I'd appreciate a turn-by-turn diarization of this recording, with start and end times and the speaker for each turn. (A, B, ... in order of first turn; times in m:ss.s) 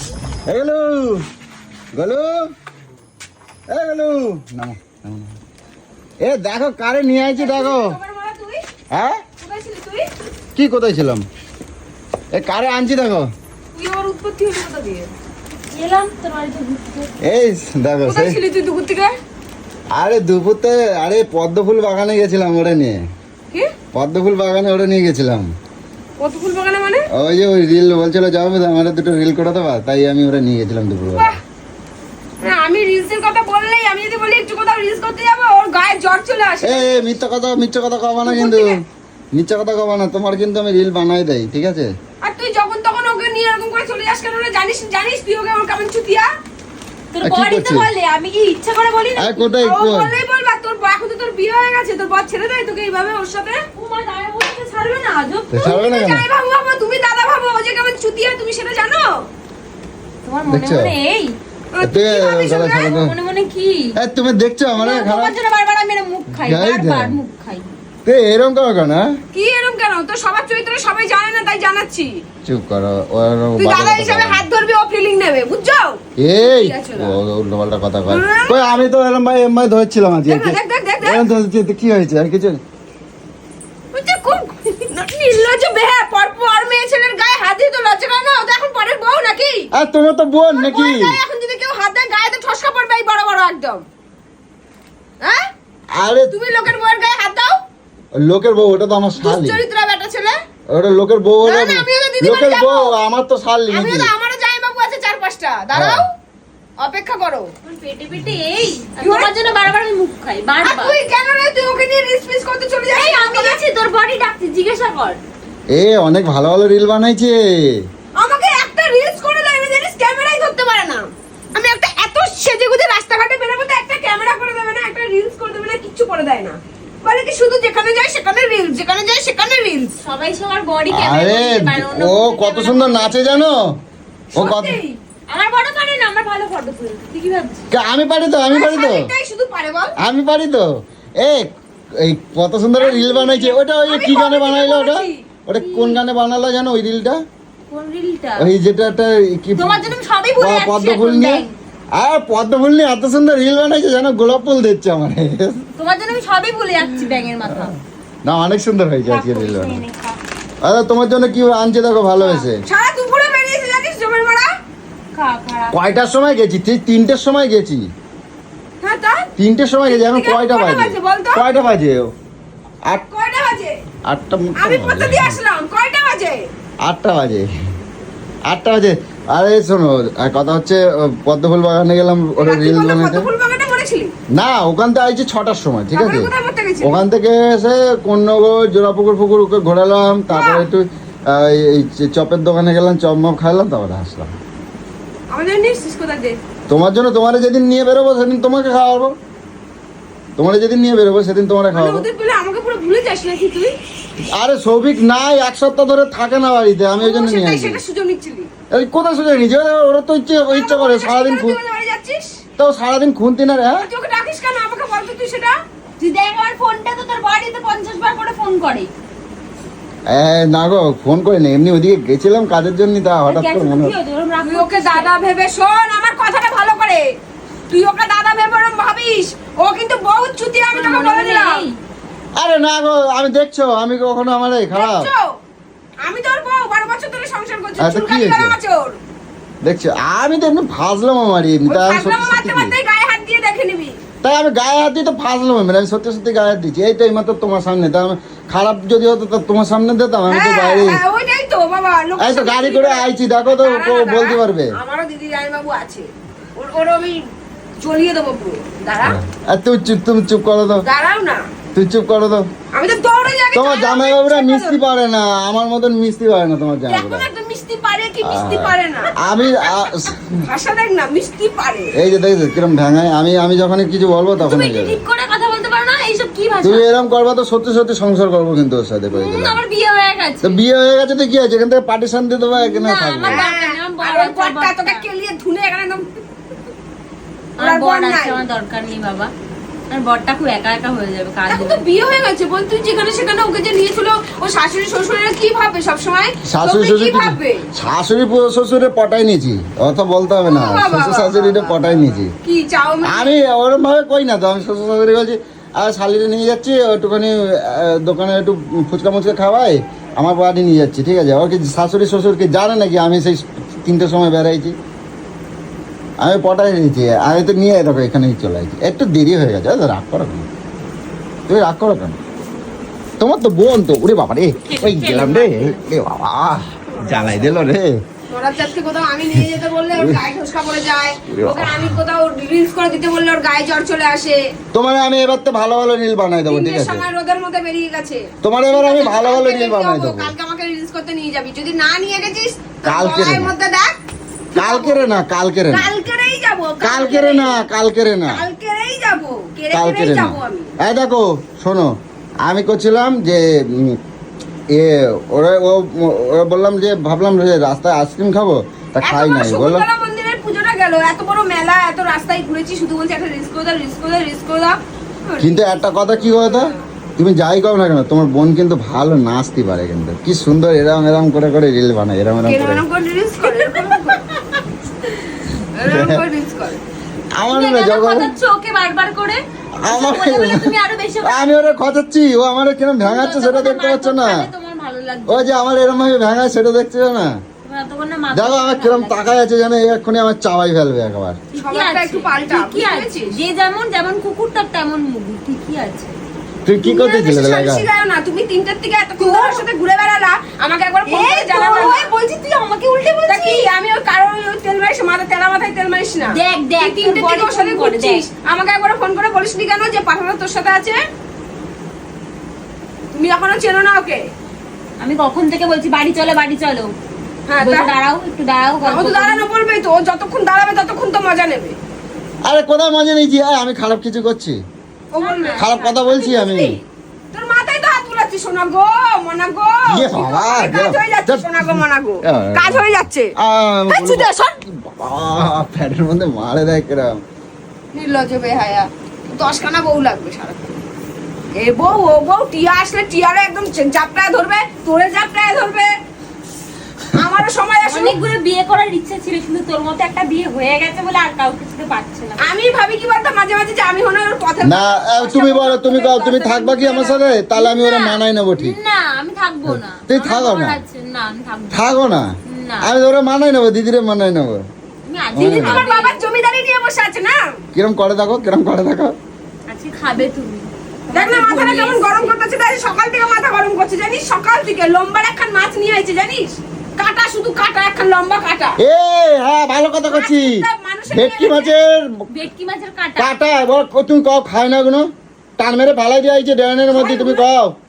0:00.5-0:01.2 A
0:02.0-0:02.5 A
0:03.7-0:05.4 A
0:06.2-0:08.0 A
0:07.3-0:08.6 B
0:08.9-0:09.2 A
0:09.4-0:10.1 B
0:10.6-0:11.3 A
0:12.3-0:13.3 A
0:13.8-0:15.1 B
0:15.7-0:17.1 C
0:17.2-0:18.4 A
0:18.0-0:19.1 B
0:19.9-0:23.0 A
0:23.9-0:25.5 A
0:26.2-0:27.1 B
0:27.1-0:31.3 A
0:31.1-0:31.4 B
0:32.4-0:37.2 B
0:36.6-0:38.8 A
0:38.2-0:38.8 B
0:39.3-0:41.9 A
0:42.2-0:46.3 B
0:47.1-0:49.5 C
0:47.2-0:47.9 A
0:49.2-0:50.2 A
0:49.6-0:53.6 B
0:53.7-0:55.7 C
0:55.5-0:56.3 A
0:55.6-0:59.1 B
1:00.2-1:01.4 C
1:00.5-1:01.0 A
1:01.7-1:03.0 B
1:01.8-1:03.1 A
1:02.8-1:04.0 C
1:04.0-1:05.4 A
1:04.8-1:07.7 C
1:06.4-1:07.2 A
1:08.0-1:09.1 A
1:09.3-1:12.2 B
1:12.4-1:14.4 A
1:13.6-1:17.2 B
1:16.2-1:22.6 A
1:18.1-1:18.9 B
1:20.3-1:21.3 B
1:23.9-1:29.7 B
1:29.7-1:31.2 A
1:30.5-1:33.8 B
1:35.2-1:35.5 B
1:36.0-1:36.4 A
1:36.3-1:37.6 B
1:38.2-1:39.6 A
1:39.2-1:40.4 B
1:40.7-1:44.1 A
1:41.4-1:43.0 B
1:43.7-1:46.1 B
1:45.7-1:46.0 A
1:46.8-1:47.5 B
1:47.6-1:51.0 C
1:49.0-1:49.6 B
1:50.6-1:53.6 B
1:52.9-1:55.2 C
1:55.7-1:57.8 A
1:58.2-2:10.0 B
2:10.0-2:13.3 C
2:10.9-2:13.8 A
2:14.4-2:14.8 A
2:14.4-2:15.0 B
2:15.3-2:17.6 C
2:17.7-2:19.1 A
2:18.5-2:20.0 B
2:20.0-2:27.2 A
2:22.8-2:25.2 B
2:25.6-2:26.0 C
2:27.7-2:28.5 C
2:28.4-2:35.6 A
2:29.6-2:31.5 C
2:35.8-2:37.7 C
2:38.2-2:39.8 A
2:39.1-2:40.2 C
2:40.6-2:42.6 A
2:42.2-2:42.5 C
2:42.6-2:44.5 B
2:45.1-2:45.8 C
2:45.7-2:47.9 A
2:48.8-2:49.3 B
2:49.4-2:52.1 A
2:49.9-2:51.5 B
2:52.9-2:53.8 B
2:54.1-2:55.3 A
2:54.6-2:56.4 B
2:56.8-2:57.5 A
2:58.5-3:03.3 A
3:02.4-3:04.1 B
3:04.4-3:14.3 A
3:05.9-3:07.0 B
3:10.3-3:10.7 B
3:15.3-3:16.4 B
3:16.7-3:19.2 A
3:20.4-3:22.1 A
3:21.7-3:23.8 B
3:24.2-3:27.8 A
3:27.0-3:28.5 B
3:28.7-3:31.6 A
3:30.5-3:32.4 B
3:32.6-3:33.9 A
3:33.8-3:35.6 B
3:36.0-3:38.9 C
3:40.1-3:44.0 A
3:43.3-3:45.2 C
3:44.4-3:47.0 B
3:47.7-3:51.6 B
3:50.7-3:51.7 C
3:52.4-3:55.1 A
3:54.7-3:55.3 B
3:56.0-3:59.0 B
3:57.8-3:58.6 A
3:59.6-4:02.8 A
4:01.7-4:04.0 B
4:04.2-4:11.0 A
4:10.3-4:17.3 B
4:12.2-4:14.7 A
4:17.8-4:19.2 B
4:19.0-4:20.9 A
4:20.8-4:21.5 B
4:21.7-4:22.5 A
4:22.7-4:24.8 B
4:23.5-4:27.3 A
4:26.9-4:31.9 B
4:28.2-4:30.4 A
4:31.9-4:35.0 A
4:34.4-4:36.8 C
4:36.6-4:39.6 A
4:39.1-4:40.6 C
4:40.4-4:43.5 A
4:42.5-4:45.0 C
4:43.2-4:46.1 B
4:47.6-4:49.3 C
4:47.6-4:48.4 B
4:49.9-4:51.8 C
4:51.5-4:57.7 B
4:56.5-5:02.3 A
5:00.4-5:03.3 B
5:03.0-5:14.8 A
5:16.2-5:20.5 A
5:21.5-5:22.2 A
5:23.2-5:28.0 A
5:24.6-5:25.8 C
5:26.9-5:27.5 B
5:28.3-5:34.4 B
5:30.0-5:30.2 A
5:31.3-5:32.0 A
5:34.7-5:37.1 A
5:36.5-5:44.0 B
5:38.4-5:40.3 A
5:42.8-5:43.5 A
5:44.5-5:45.1 B
5:44.6-5:45.9 A
5:45.7-5:47.6 B
5:46.8-5:48.4 A
5:48.3-5:50.7 B
5:49.7-5:54.0 A
5:54.7-5:59.9 A
5:59.0-6:06.8 B
6:05.4-6:12.8 A
6:12.4-6:14.3 B
6:15.8-6:16.8 B
6:15.8-6:16.2 A
6:17.4-6:18.4 A
6:17.5-6:21.5 C
6:19.8-6:24.5 A
6:23.0-6:25.5 C
6:25.3-6:27.3 A
6:27.6-6:29.4 C
6:28.3-6:31.4 A
6:31.5-6:36.2 C
6:31.6-6:33.4 B
6:36.6-6:37.9 A
6:36.8-6:42.1 B
6:39.2-6:39.6 C
6:41.1-6:43.7 C
6:43.3-6:51.0 B
6:46.3-6:48.2 C
6:53.1-6:54.2 B
6:55.0-6:56.9 C
6:57.5-6:57.9 B
6:57.6-6:59.4 C
6:58.8-7:01.8 B
7:02.4-7:04.6 A
7:05.1-7:06.8 B
7:05.2-7:06.0 C
7:05.6-7:06.8 A
7:07.3-7:13.3 B
7:09.9-7:12.9 A
7:13.4-7:17.2 A
7:13.9-7:14.6 B
7:17.9-7:20.8 B
7:21.5-7:25.9 B
7:27.1-7:28.2 B
7:27.8-7:32.5 C
7:32.4-7:37.2 B
7:34.6-7:38.8 A
7:37.5-7:41.9 C
7:39.7-7:40.8 A
7:41.7-7:42.3 A
7:42.4-7:42.9 C
7:42.8-7:44.6 A
7:45.0-7:46.2 C
7:45.3-7:45.9 A
7:45.4-7:47.4 B
7:47.7-7:49.2 A
7:49.7-7:52.3 C
7:51.1-7:58.8 B
7:58.8-8:02.2 A
8:00.1-8:01.8 B
8:02.3-8:03.3 C
8:03.2-8:07.8 A
8:06.9-8:07.4 B